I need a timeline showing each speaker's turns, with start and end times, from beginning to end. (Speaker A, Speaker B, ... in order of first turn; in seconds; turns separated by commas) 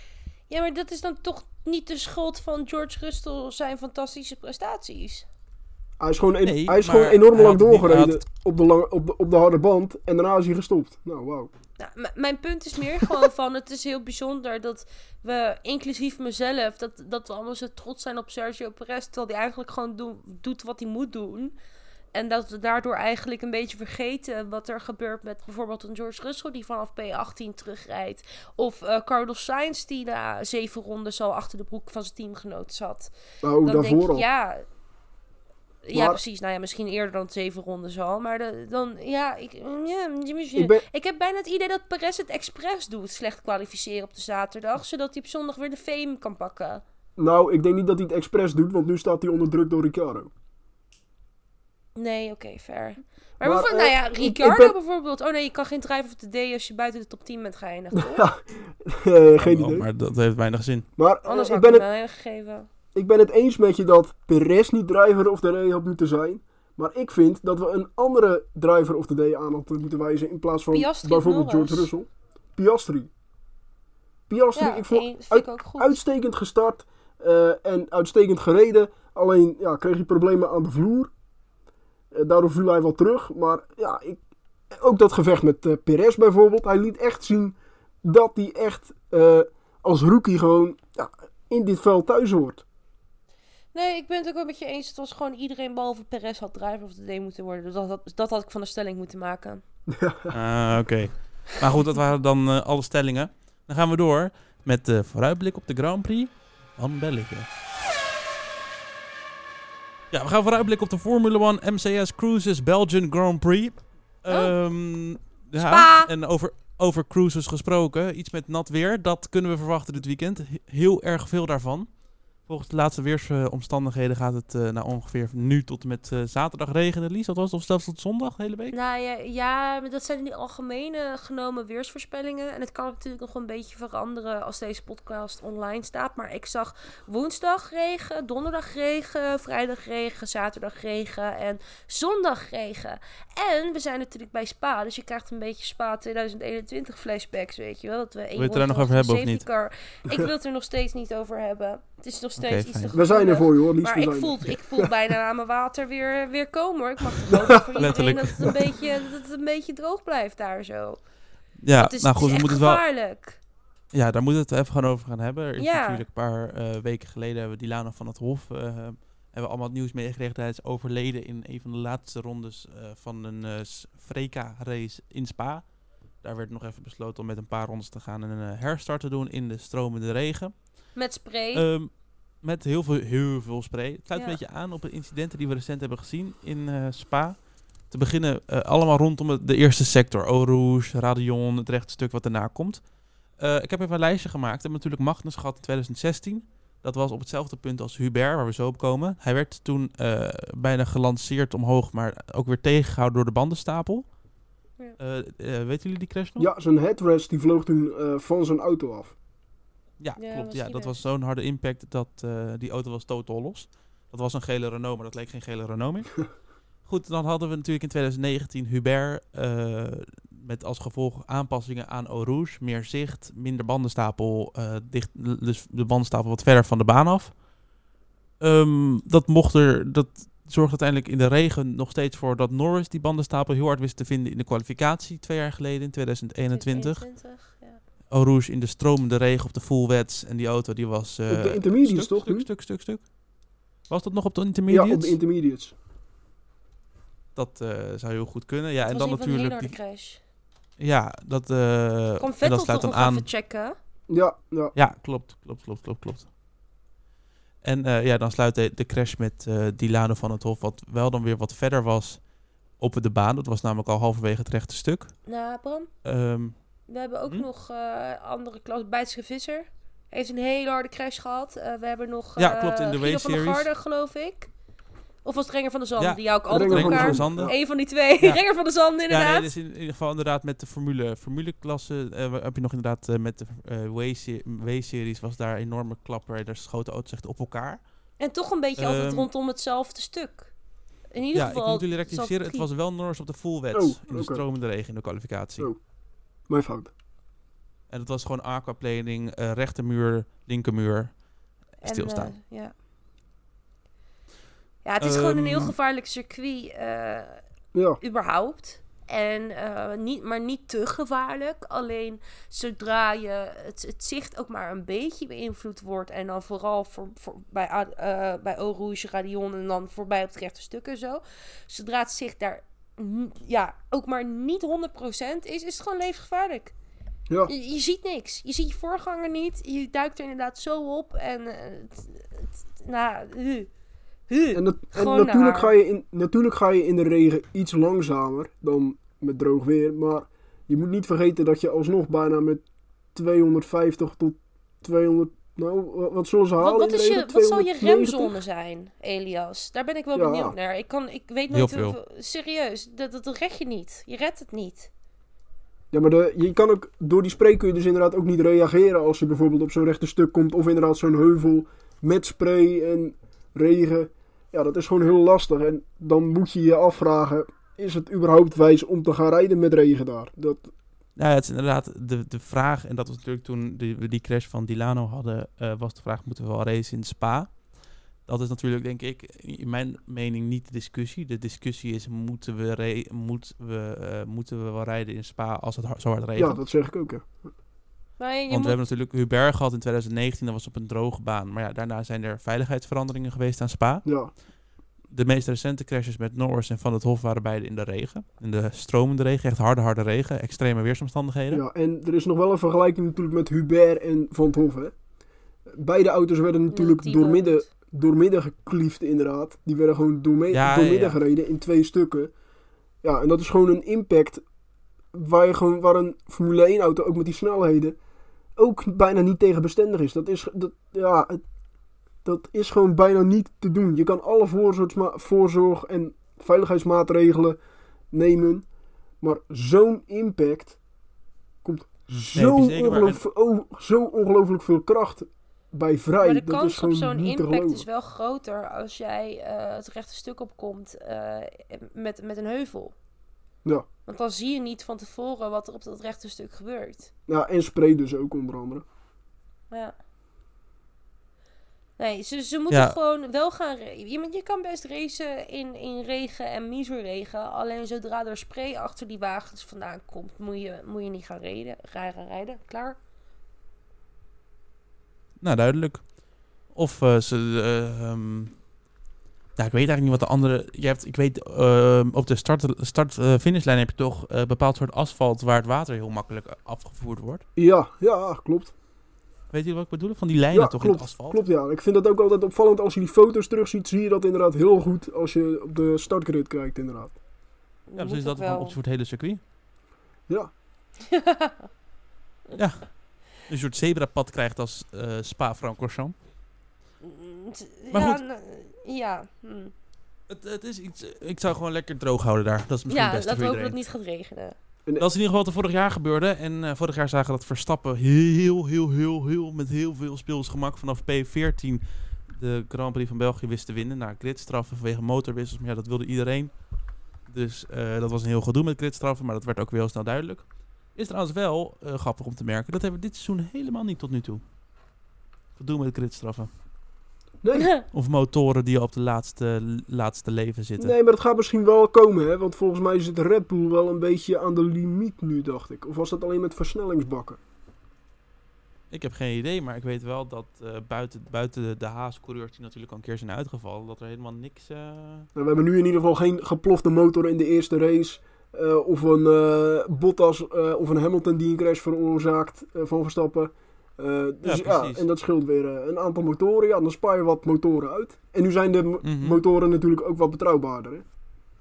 Speaker A: 0.5-5.2, Speaker B: 6.0-11.5, Speaker C: 6.4-8.2, Speaker A: 11.8-21.5, Speaker A: 22.1-33.1, Speaker B: 33.4-34.2, Speaker A: 33.6-34.6, Speaker A: 35.9-46.8, Speaker B: 35.9-36.2, Speaker B: 40.5-40.8, Speaker B: 47.2-50.3, Speaker A: 52.0-58.2, Speaker B: 53.4-54.8, Speaker B: 57.9-59.8, Speaker C: 59.3-60.9, Speaker B: 61.0-61.9, Speaker A: 61.2-62.7, Speaker B: 62.9-73.1, Speaker A: 70.7-71.9, Speaker B: 74.3-81.1, Speaker A: 74.5-76.0, Speaker B: 82.1-92.6, Speaker A: 93.7-99.6, Speaker B: 99.9-100.3, Speaker C: 100.3-107.5, Speaker C: 110.1-121.9, Speaker A: 114.3-114.5, Speaker A: 115.5-116.1, Speaker C: 122.4-128.7, Speaker A: 128.7-161.0, Speaker C: 148.3-149.4, Speaker C: 152.4-153.0, Speaker B: 152.9-154.9, Speaker B: 157.3-158.0, Speaker C: 157.8-158.6, Speaker C: 161.6-162.8, Speaker A: 161.8-163.4, Speaker C: 163.9-180.7, Speaker A: 165.6-166.0, Speaker A: 180.9-181.6, Speaker C: 181.5-204.1, Speaker C: 205.0-206.5, Speaker B: 206.4-209.2, Speaker C: 210.0-216.2, Speaker A: 210.2-211.0, Speaker C: 216.8-227.4, Speaker C: 228.4-237.0, Speaker A: 236.5-237.8, Speaker C: 238.1-243.1, Speaker B: 241.3-242.5, Speaker C: 243.9-245.2, Speaker B: 244.7-245.7, Speaker C: 247.3-249.7, Speaker A: 248.9-250.2, Speaker C: 250.8-253.2, Speaker A: 252.2-253.8, Speaker B: 254.1-254.7, Speaker C: 254.7-256.3, Speaker C: 257.6-262.2, Speaker C: 262.8-265.1, Speaker A: 265.2-265.9, Speaker C: 266.0-266.7, Speaker A: 266.9-274.5, Speaker C: 272.4-273.7, Speaker A: 275.2-279.5, Speaker C: 276.0-277.6, Speaker B: 276.5-277.5, Speaker C: 279.1-287.8, Speaker A: 288.2-290.5, Speaker C: 288.8-289.3, Speaker A: 291.1-292.7, Speaker C: 291.3-295.7, Speaker B: 293.7-294.4, Speaker B: 296.5-296.9, Speaker C: 297.9-301.1, Speaker C: 301.8-302.3, Speaker A: 301.8-302.7, Speaker A: 304.8-307.4, Speaker C: 305.0-305.7, Speaker B: 307.7-308.0, Speaker A: 308.0-326.7, Speaker A: 327.5-333.7, Speaker A: 334.3-335.7, Speaker B: 334.5-348.3, Speaker A: 346.6-354.9, Speaker B: 350.1-350.5, Speaker C: 351.5-352.0, Speaker B: 355.9-370.7, Speaker C: 371.1-377.6, Speaker C: 378.2-386.6, Speaker B: 386.4-387.5, Speaker A: 388.2-388.8, Speaker C: 388.5-394.0, Speaker B: 394.0-394.3, Speaker C: 395.1-401.6, Speaker B: 401.5-404.9, Speaker B: 405.7-412.3, Speaker A: 406.7-407.6, Speaker C: 410.5-411.2, Speaker B: 413.0-414.4, Speaker B: 415.1-417.9, Speaker B: 418.6-421.4, Speaker B: 422.2-427.6, Speaker B: 428.1-428.6, Speaker B: 429.2-430.8, Speaker B: 431.6-437.8, Speaker C: 432.4-433.2, Speaker A: 436.2-442.9, Speaker A: 444.1-447.1, Speaker B: 447.3-448.8, Speaker A: 449.7-449.9, Speaker A: 452.0-463.0, Speaker C: 452.7-452.9, Speaker C: 465.4-466.1, Speaker C: 466.7-468.6, Speaker C: 469.6-477.4, Speaker B: 477.6-478.7, Speaker C: 479.5-481.4, Speaker B: 480.5-487.1, Speaker A: 487.9-488.8, Speaker C: 487.9-489.4, Speaker A: 491.0-491.7, Speaker C: 492.5-496.1, Speaker A: 497.0-499.7, Speaker C: 497.9-498.2, Speaker C: 500.3-503.8, Speaker A: 502.9-504.6, Speaker C: 505.0-516.6, Speaker C: 517.2-524.4, Speaker C: 525.5-526.5, Speaker B: 527.4-527.7, Speaker A: 527.6-527.8, Speaker C: 527.9-530.9, Speaker B: 530.8-537.4, Speaker C: 538.9-545.3, Speaker B: 545.3-561.0, Speaker C: 554.4-555.0, Speaker C: 559.0-559.4